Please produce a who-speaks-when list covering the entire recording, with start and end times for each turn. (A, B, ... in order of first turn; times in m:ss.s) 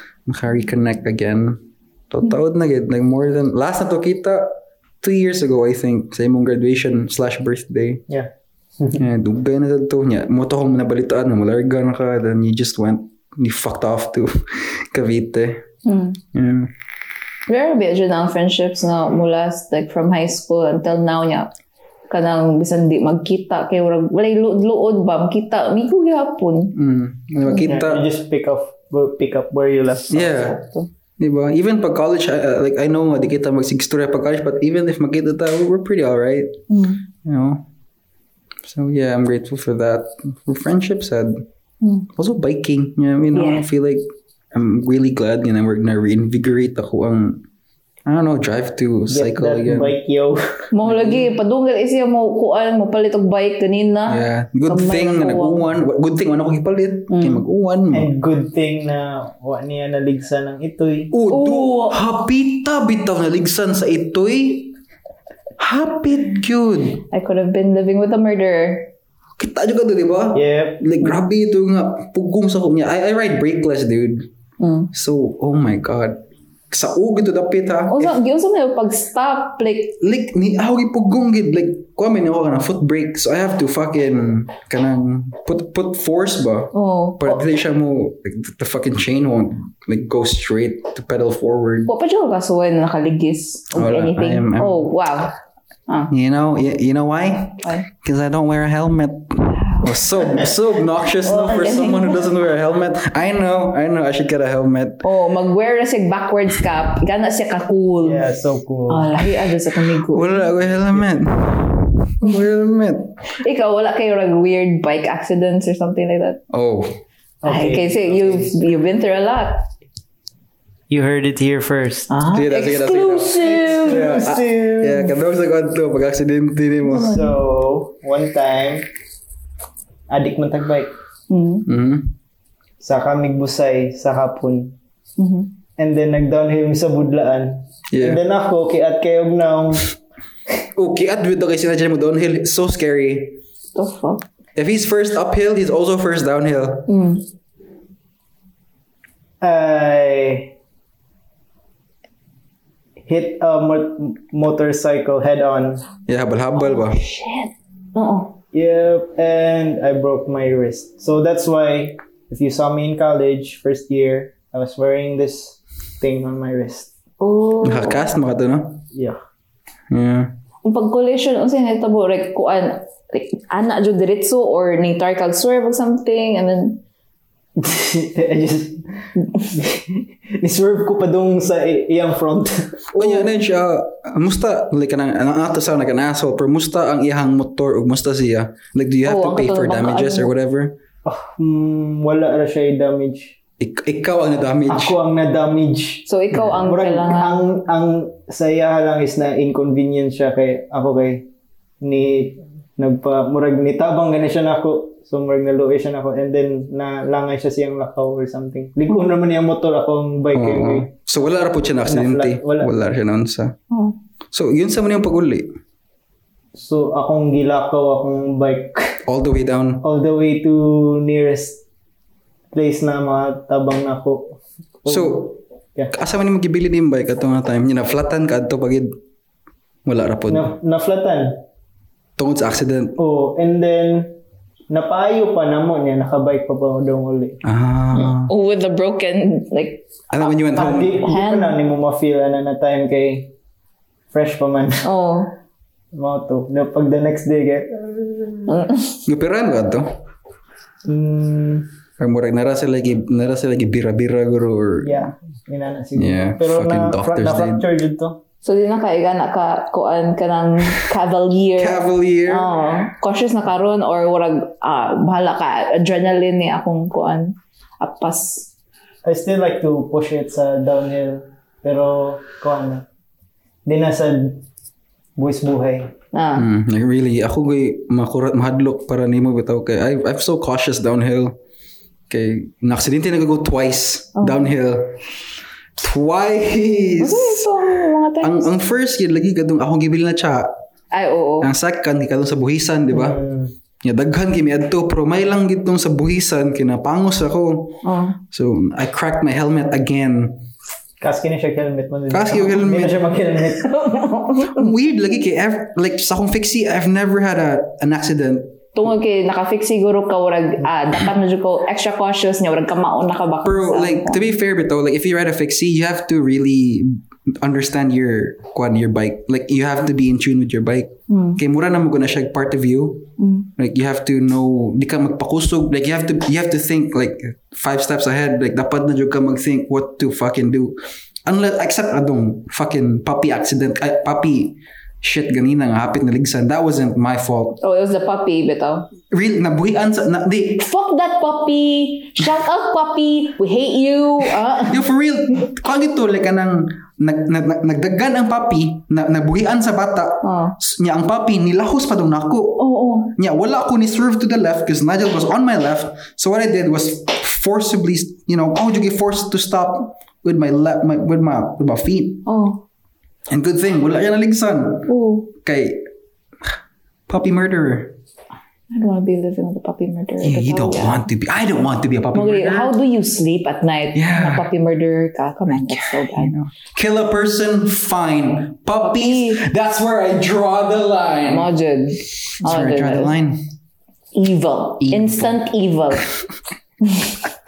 0:00.3-0:08.0 A
0:08.1-0:09.0 B
0:09.0-0:15.6 A
0:15.8-0:16.2 C
0:16.3-0:16.7 A
0:17.5-0:21.5 C
0:22.1-0:26.8 C
0:26.7-0:28.0 A
0:27.6-0:30.5 B
0:30.1-0:30.6 A
0:30.4-0:30.9 C
0:31.2-0:36.6 A
0:36.7-0:37.0 C
0:37.2-0:37.7 A
0:38.6-0:41.5 A
0:41.8-0:42.1 C
0:42.1-0:47.4 A
0:43.3-0:43.7 C
0:48.1-0:50.0 A
0:49.1-0:50.7 B
0:50.7-0:55.6 C
0:50.8-0:51.3 A
0:54.1-0:58.1 A
0:57.1-0:57.4 C
0:57.9-1:01.1 B
1:01.1-1:04.8 A
1:01.3-1:02.0 C
1:05.6-1:07.0 A
1:07.1-1:08.9 C
1:09.4-1:14.3 A
1:10.3-1:10.9 B
1:14.6-1:14.9 C
1:14.9-1:18.2 A
1:17.9-1:20.0 C
1:20.0-1:31.9 A
1:26.7-1:27.4 C
1:31.9-1:35.4 C
1:33.7-1:34.8 A
1:36.1-1:45.0 A
1:37.6-1:37.9 C
1:39.5-1:40.1 C
1:41.2-1:42.3 C
1:45.0-1:48.3 C
1:48.0-1:49.1 B
1:48.9-1:50.4 C
1:50.0-1:53.2 A
1:53.3-1:56.4 C
1:56.5-1:57.0 A
1:57.4-1:58.6 B
1:57.5-1:59.6 C
2:00.9-2:02.1 B
2:02.1-2:04.1 C
2:02.3-2:07.2 A
2:03.4-2:05.2 B
2:06.9-2:07.4 C
2:07.0-2:08.9 B
2:10.1-2:10.9 B
2:11.3-2:11.7 C
2:11.7-2:12.2 A
2:12.8-2:14.8 B
2:15.2-2:15.5 C
2:15.8-2:19.9 B
2:17.9-2:18.2 A
2:20.7-2:23.4 A
2:23.8-2:24.2 C
2:24.6-2:26.9 A
2:26.9-2:27.2 C
2:29.4-2:30.5 B
2:33.0-2:35.8 B
2:36.1-2:37.0 A
2:36.6-2:38.4 C
2:38.5-2:46.9 B
2:47.2-2:48.1 C
2:47.6-2:48.8 A
2:48.9-2:49.2 B
2:49.9-2:50.3 A
2:50.6-2:56.8 C
2:57.6-2:58.8 B
2:59.2-2:59.6 C
2:59.5-3:03.3 B
3:03.0-3:10.8 A
3:09.0-3:10.3 C
3:11.0-3:13.4 B
3:13.6-3:15.0 A
3:14.7-3:21.3 B
3:16.1-3:17.4 C
3:21.8-3:30.9 B
3:30.3-3:33.6 A
3:31.8-3:32.7 B
3:33.7-3:34.0 C
3:34.3-3:35.5 A
3:36.6-3:39.0 B
3:39.1-3:39.8 A
3:39.8-3:41.6 B
3:42.5-3:46.0 B
3:44.9-3:45.4 A
3:45.9-3:48.9 A
3:49.8-3:50.5 A
3:50.3-3:51.4 B
3:52.2-3:53.0 A
3:53.0-3:54.2 B
3:54.7-3:57.4 B
3:57.4-3:58.3 A
3:57.9-4:00.4 C
4:00.1-4:01.0 A
4:00.6-4:03.3 B
4:01.0-4:01.6 C
4:04.1-4:04.8 B
4:04.8-4:05.3 C
4:05.9-4:08.5 B
4:08.5-4:09.0 C
4:09.1-4:09.9 A
4:10.9-4:11.7 B
4:12.0-4:15.1 A
4:14.8-4:18.2 B
4:16.0-4:17.6 A
4:18.4-4:28.5 C
4:21.6-4:22.5 A
4:29.0-4:32.9 B
4:33.7-4:34.4 B
4:35.2-4:35.9 B
4:36.1-4:36.4 C
4:36.4-4:41.4 A
4:42.1-4:45.0 A
4:44.2-4:44.5 C
4:45.8-4:47.5 A
4:47.0-4:48.5 C
4:48.2-4:50.5 A
4:50.9-4:51.5 C
4:51.4-4:53.2 A
4:52.9-4:53.5 B
4:53.8-5:00.4 A
4:57.8-4:58.2 C
5:01.0-5:03.7 B
5:02.1-5:03.0 A
5:03.6-5:04.7 C
5:04.5-5:08.6 A
5:08.8-5:14.2 C
5:13.4-5:37.6 A
5:21.1-5:21.4 C
5:23.2-5:23.5 C
5:37.6-5:38.9 C
5:39.1-5:40.6 A
5:40.6-5:44.8 C
5:44.6-5:52.6 A
5:50.2-5:50.6 C
5:52.6-5:53.1 C
5:53.2-6:02.3 A
6:02.3-6:02.6 C
6:03.3-6:05.9 A
6:04.9-6:05.3 C
6:07.1-6:08.0 A
6:08.7-6:11.0 C
6:10.2-6:12.7 A
6:12.1-6:16.3 C
6:13.9-6:14.5 A
6:15.7-6:21.5 A
6:18.8-6:19.4 C
6:21.3-6:23.1 C
6:22.4-6:23.4 A
6:24.1-6:26.1 C
6:24.8-6:25.4 A
6:26.8-6:27.2 C